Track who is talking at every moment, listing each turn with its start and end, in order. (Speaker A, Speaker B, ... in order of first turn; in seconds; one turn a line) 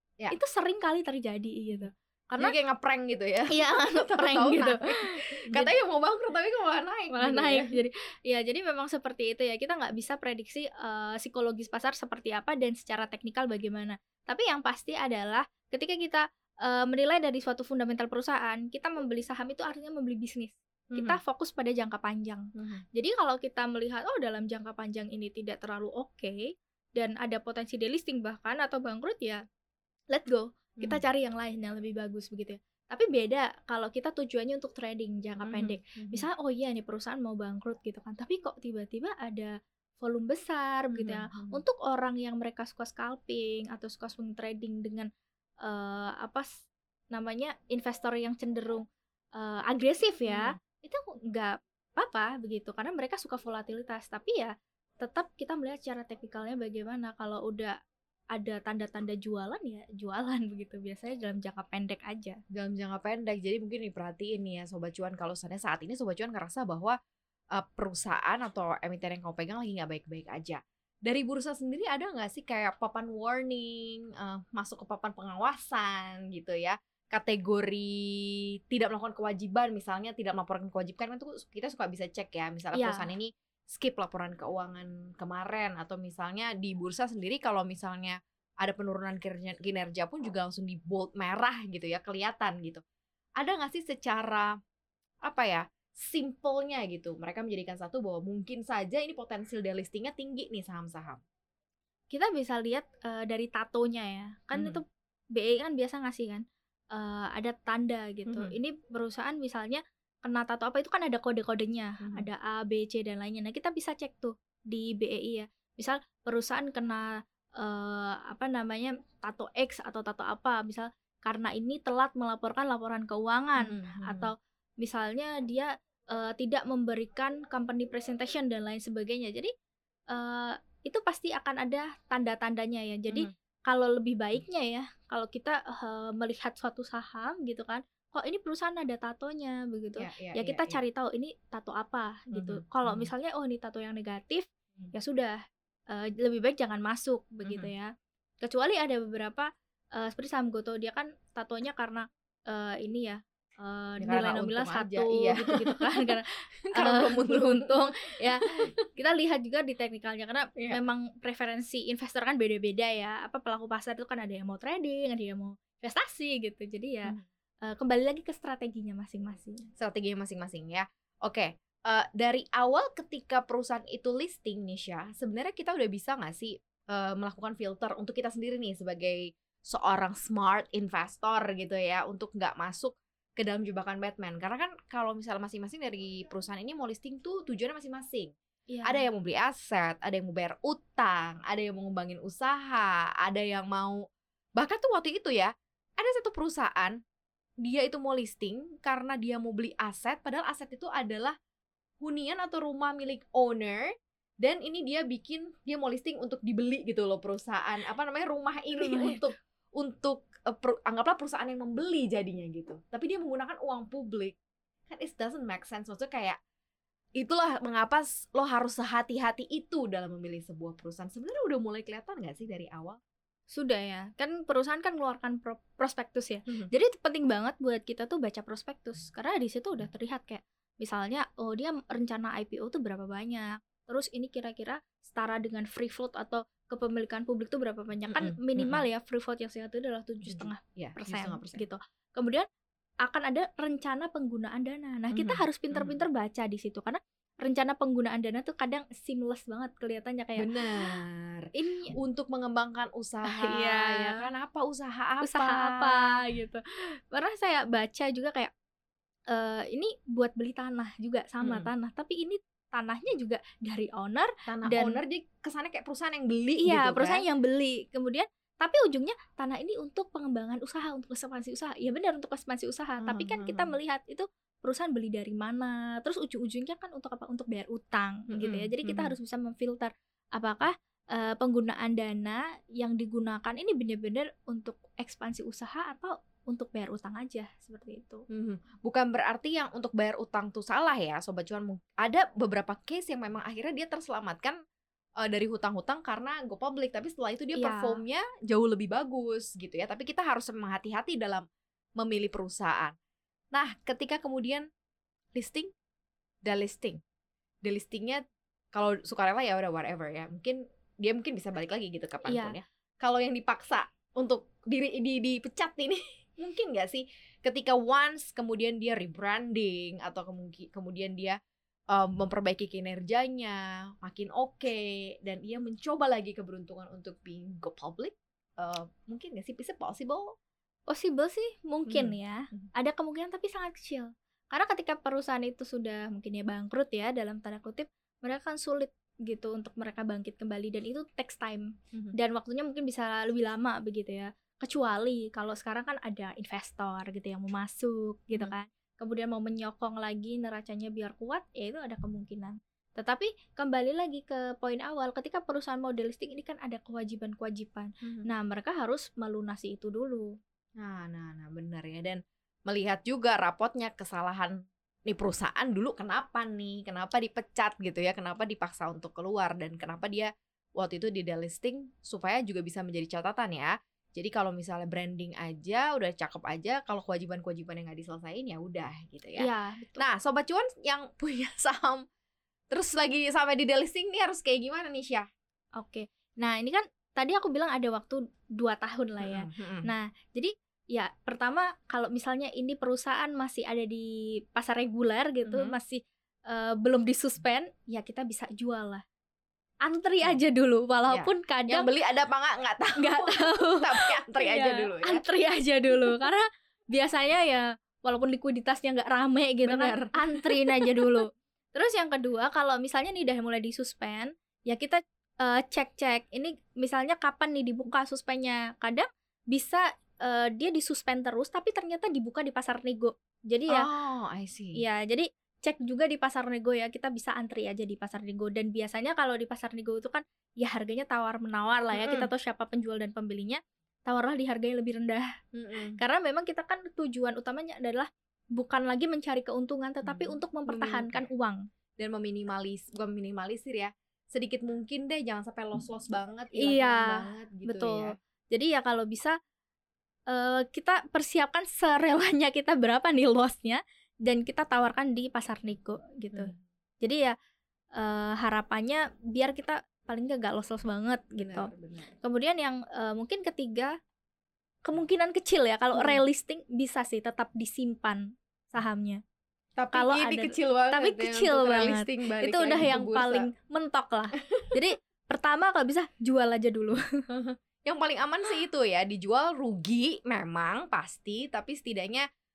Speaker A: 0.3-2.5
Speaker B: 1.7-7.8
Speaker A: 3.5-5.7
Speaker A: 7.1-29.4
Speaker B: 20.9-21.2
Speaker B: 22.6-22.8
Speaker A: 30.1-45.1
Speaker B: 35.4-36.3
Speaker B: 40.9-41.6
Speaker A: 45.6-46.5
Speaker A: 47.1-48.8
Speaker A: 49.4-57.8
Speaker B: 50.3-50.5
Speaker A: 58.3-62.4
Speaker B: 62.5-67.0
Speaker B: 67.5-92.8
Speaker A: 82.7-83.1
Speaker B: 93.4-94.5
Speaker B: 95.2-101.2
Speaker A: 102.1-104.8
Speaker B: 104.5-104.8
Speaker A: 105.3-129.5
Speaker B: 108.3-108.5
Speaker B: 112.0-112.3
Speaker B: 123.6-124.3
Speaker A: 130.1-145.4
Speaker B: 140.0-140.8
Speaker B: 142.3-143.1
Speaker A: 145.9-169.6
Speaker B: 147.4-147.7
Speaker B: 154.0-156.1
Speaker B: 156.7-157.8
Speaker B: 158.4-158.7
Speaker B: 169.8-188.3
Speaker A: 188.7-189.0
Speaker B: 188.8-194.0
Speaker B: 194.6-196.9
Speaker B: 197.6-201.3
Speaker B: 202.0-214.3
Speaker A: 208.7-209.3
Speaker B: 214.9-216.4
Speaker B: 217.2-223.0
Speaker A: 223.5-242.4
Speaker B: 238.1-238.8
Speaker B: 240.2-241.7
Speaker A: 243.0-251.0
Speaker B: 245.1-246.0
Speaker B: 250.4-256.0
Speaker A: 251.5-251.9
Speaker A: 253.3-254.2
Speaker A: 255.2-258.5
Speaker A: 259.3-265.0
Speaker B: 261.4-261.7
Speaker B: 264.5-267.2
Speaker A: 266.6-288.2
Speaker B: 273.0-273.7
Speaker B: 278.3-279.1
Speaker B: 288.3-294.6
Speaker B: 295.2-301.4
Speaker A: 297.5-298.0
Speaker B: 302.0-302.9
Speaker B: 303.5-304.6
Speaker B: 305.4-305.7
Speaker B: 306.4-307.0
Speaker B: 307.6-308.2
Speaker B: 308.7-321.4
Speaker A: 312.2-312.6
Speaker B: 321.9-330.3
Speaker A: 330.9-360.3
Speaker B: 331.9-332.7
Speaker B: 358.0-358.3
Speaker B: 360.8-364.5
Speaker B: 365.1-382.0
Speaker A: 379.4-380.1
Speaker B: 382.7-385.2
Speaker A: 385.8-399.0
Speaker B: 389.2-389.9
Speaker B: 395.4-395.8
Speaker A: 399.8-401.9
Speaker B: 401.1-405.2
Speaker A: 403.0-423.9
Speaker B: 405.9-406.1
Speaker B: 409.6-411.2
Speaker B: 423.7-424.8
Speaker A: 424.8-435.3
Speaker B: 431.9-432.3
Speaker B: 435.5-436.0
Speaker A: 436.0-441.6
Speaker B: 440.1-441.3
Speaker B: 442.0-448.1
Speaker A: 446.5-449.4
Speaker A: 450.3-456.5
Speaker B: 456.3-456.6
Speaker A: 457.0-457.3
Speaker A: 458.0-461.7
Speaker B: 461.4-462.1
Speaker A: 462.2-463.9
Speaker A: 464.8-469.2
Speaker B: 465.9-466.2
Speaker B: 469.8-473.5
Speaker A: 469.9-477.0
Speaker B: 477.3-482.2